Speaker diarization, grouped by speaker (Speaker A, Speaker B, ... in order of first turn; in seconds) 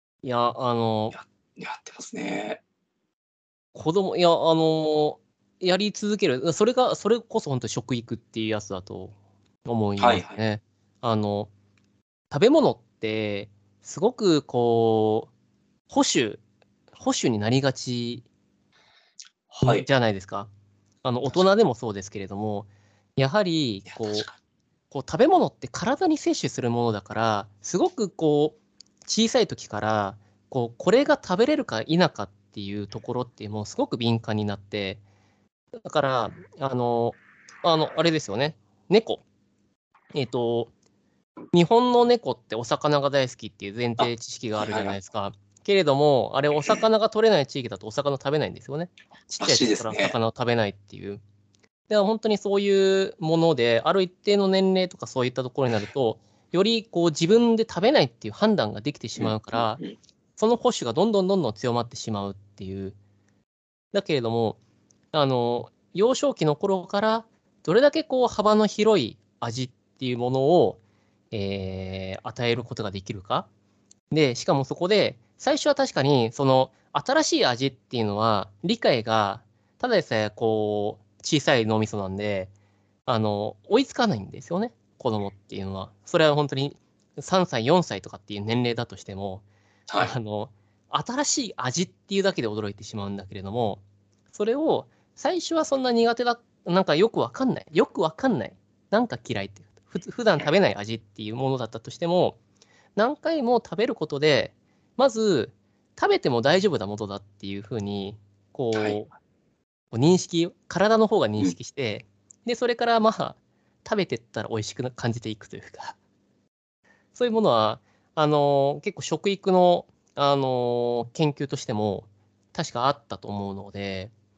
Speaker A: 0.2-1.1, 3.8-11.5, 12.3-15.3, 15.9-16.4, 16.9-18.3, 19.6-20.5, 21.0-24.3, 24.9-35.0, 35.8-39.2, 40.1-40.7, 41.5-51.2, 51.9-59.8, 60.4-63.0, 63.9-64.6, 65.1-70.8, 71.3-73.5, 74.1-82.5, 83.1-89.5, 90.0-93.8, 94.3-102.4, 103.0-109.1, 109.9-116.0, 117.2-124.1
Speaker B: 1.1-2.6, 10.0-10.4, 19.5-19.9, 23.9-24.4, 44.0-45.0, 49.4-50.2, 59.2-60.0, 89.9-90.2, 108.7-109.0